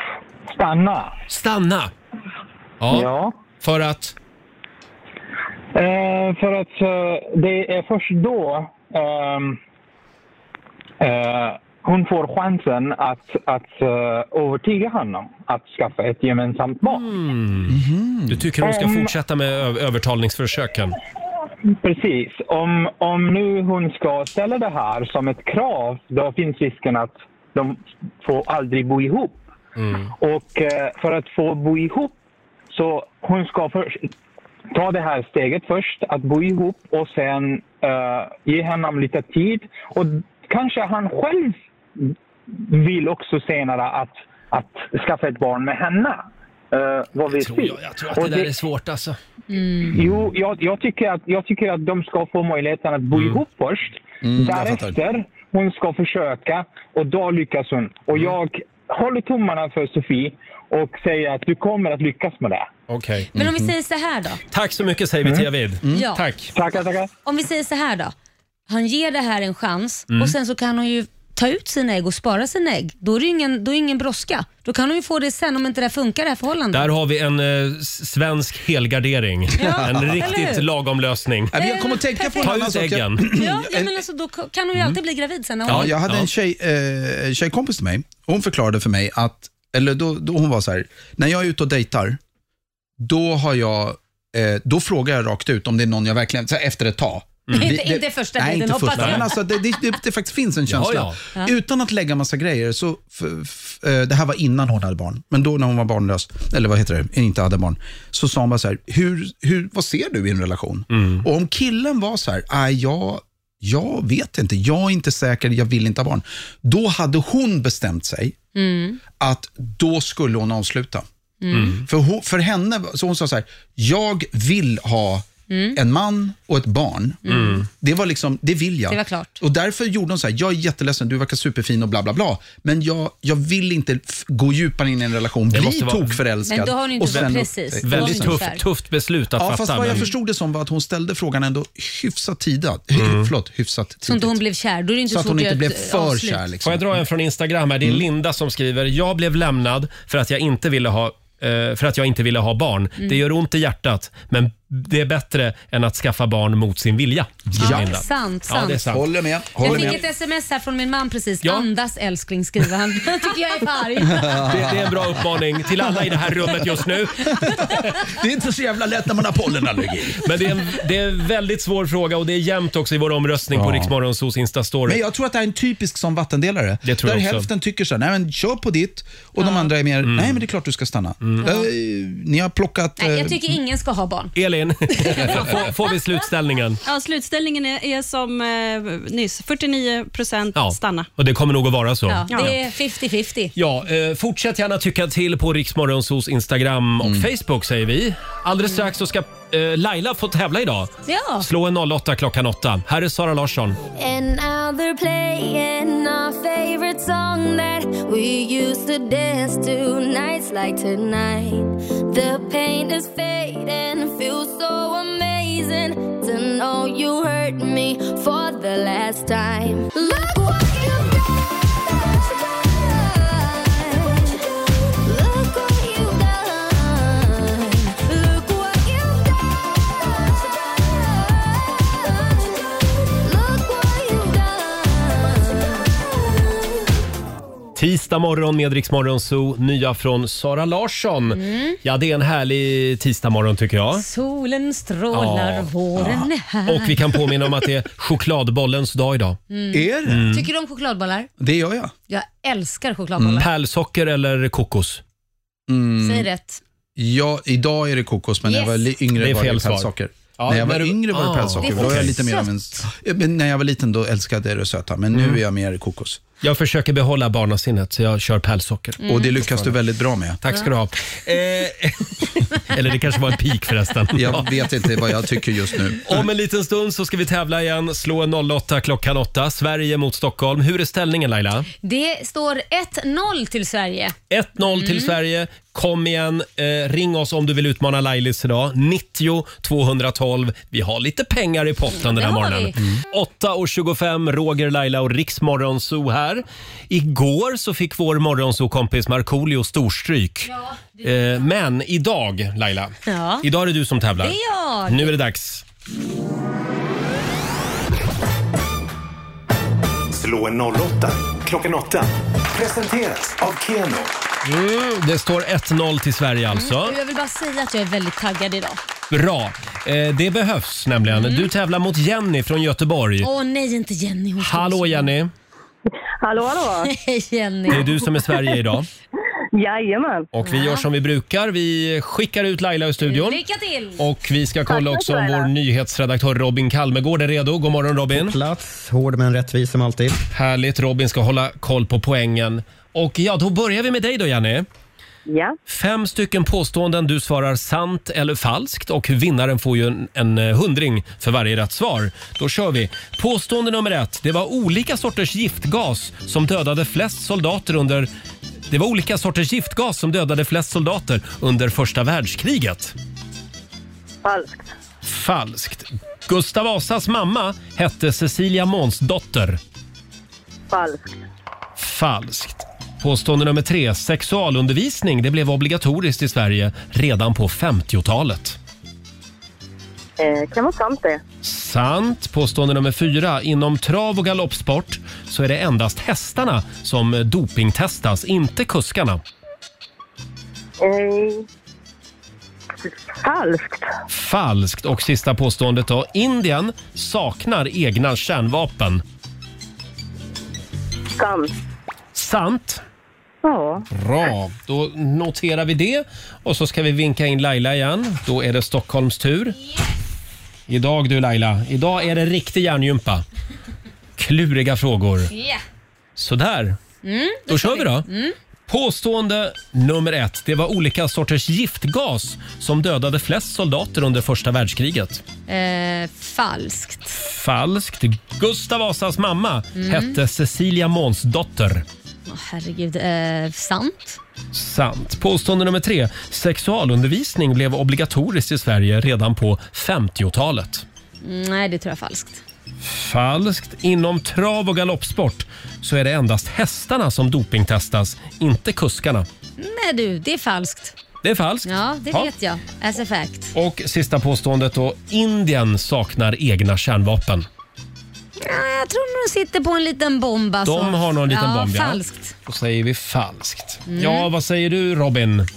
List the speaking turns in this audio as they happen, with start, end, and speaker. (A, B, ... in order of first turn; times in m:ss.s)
0:00.5-0:01.1 A
0:01.3-0:01.9 B
0:02.8-0:03.0 B
0:02.9-0:03.4 A
0:03.6-0:04.1 B
0:05.7-0:09.6 A
0:11.0-0:17.0 A
0:16.8-0:21.0 B
0:17.7-0:18.5 C
0:18.6-0:19.1 A
0:21.8-0:29.4 A
0:29.8-0:30.1 B
0:30.2-0:32.1 A
0:32.7-0:34.1 A
0:34.7-0:41.6 A
0:42.5-0:48.5 A
0:47.3-0:49.2 B
0:49.5-0:49.9 D
0:49.9-1:02.7 A
0:54.2-0:55.0 C
1:02.9-1:03.7 B
1:03.3-1:04.4 D
1:04.5-1:06.5 B
1:05.9-1:06.2 D
1:06.5-1:07.1 A
1:07.2-1:08.1 D
1:08.7-1:16.9 D
1:16.7-1:21.5 B
1:19.6-1:20.6 D
1:19.6-1:20.2 C
1:21.5-1:24.0 C
1:21.5-1:25.9 D
1:22.4-1:23.3 B
1:25.6-1:26.3 B
1:25.7-1:32.2 C
1:33.0-1:58.4 C
1:37.5-1:37.7 B
1:37.5-1:39.5 D
1:39.0-1:39.3 B
1:40.7-1:41.2 B
1:50.9-1:51.2 B
1:58.5-1:59.0 D
1:59.2-2:01.0 C
2:01.4-2:01.8 D
2:01.5-2:01.8 B
2:01.7-2:18.4 C
2:05.5-2:05.8 D
2:07.2-2:07.6 D
2:08.9-2:09.4 D
2:15.5-2:16.2 B
2:16.4-2:18.6 D
2:17.8-2:20.1 B
2:19.4-2:24.4 C
2:22.9-2:23.3 B
2:24.0-2:26.4 D
2:25.1-2:27.0 C
2:26.6-2:39.0 B
2:37.5-2:37.8 C
2:37.6-2:39.0 D
2:38.8-2:40.0 C
2:39.6-2:44.5 D
2:39.6-2:40.0 B
2:44.1-2:45.2 C
2:44.3-2:47.9 B
2:45.8-2:46.6 C
2:47.3-2:50.2 C
2:47.4-2:47.7 D
2:50.2-2:55.0 B
2:53.5-2:53.9 C
2:54.9-3:03.5 C
2:56.8-2:57.5 B
2:59.4-2:59.6 D
3:00.0-3:00.4 B
3:01.2-3:01.5 B
3:01.4-3:01.7 D
3:03.0-3:04.3 D
3:04.3-3:06.8 B
3:04.9-3:05.7 D
3:06.8-3:11.1 E
3:10.5-3:12.6 B
3:12.1-3:13.5 D
3:13.5-3:23.8 B
3:17.0-3:17.3 C
3:21.0-3:21.5 D
3:23.9-3:41.2 F
3:42.3-3:44.4 F
3:45.0-3:56.5 F
3:57.8-4:04.0 B
4:01.3-4:01.8 D
4:03.9-4:07.3 D
4:05.1-4:09.4 B
4:09.5-4:11.3 D
4:09.7-4:10.3 C
4:10.0-4:10.4 B
4:11.4-4:11.9 C
4:12.1-4:13.5 D
4:13.3-4:15.0 B
4:15.7-4:16.3 C
4:16.0-4:16.6 D
4:17.0-4:26.2 C
4:18.4-4:18.9 D
4:19.2-4:22.2 B
4:21.6-4:22.5 D
4:25.1-4:25.4 B
4:26.4-4:29.8 B
4:29.0-4:29.4 D
4:29.0-4:30.4 C
4:30.4-4:35.4 B
4:34.1-4:36.2 C
4:35.9-4:41.7 B
4:41.8-4:44.1 D
4:44.3-5:05.6 B
4:44.7-4:45.1 D
4:52.0-4:52.8 D
5:03.1-5:03.4 D
5:04.2-5:05.1 D
5:10.1-5:14.1 G
5:14.4-5:17.0 B
5:16.5-5:18.8 D
5:19.1-5:23.3 B
5:21.1-5:21.5 D
5:23.2-5:25.1 D
5:24.4-5:25.3 B
5:26.2-5:26.9 H
5:26.8-5:27.9 D
5:27.7-5:28.9 B
5:29.5-5:30.3 H
5:30.3-5:33.4 B
5:30.4-5:30.8 D
5:33.0-5:34.0 D
5:34.0-5:38.4 B
5:34.7-5:35.5 H
5:38.1-5:40.2 I
5:40.3-5:44.6 B
5:45.3-5:45.6 H
5:45.7-5:58.1 B
5:58.7-6:02.9 B
6:04.2-6:04.7 H
6:05.0-6:09.6 B
6:10.7-6:11.2 H
6:11.8-6:18.6 B
6:20.2-6:21.2 H
6:21.4-6:29.2 B
6:30.8-6:31.4 H
6:33.2-6:33.9 H
6:34.1-6:39.0 B
6:41.2-6:41.5 H
6:42.1-6:42.8 B
6:43.4-6:43.8 H
6:43.9-6:49.6 B
6:50.7-6:53.2 B
6:54.2-6:55.3 B
6:55.3-6:55.6 D
6:56.2-6:56.8 B
6:57.0-6:58.3 D
6:57.5-6:58.1 B
6:58.7-7:05.2 B
7:05.5-7:07.2 D
7:07.2-7:11.8 B
7:09.7-7:10.2 D
7:12.3-7:14.2 D
7:14.5-7:20.8 B
7:21.2-7:22.4 D
7:22.8-7:29.3 B
7:29.6-7:30.9 D
7:31.2-7:32.3 B
7:31.6-7:33.5 D
7:33.5-7:37.5 B
7:38.4-7:42.3 D
7:40.6-7:45.5 B
7:43.9-7:44.3 D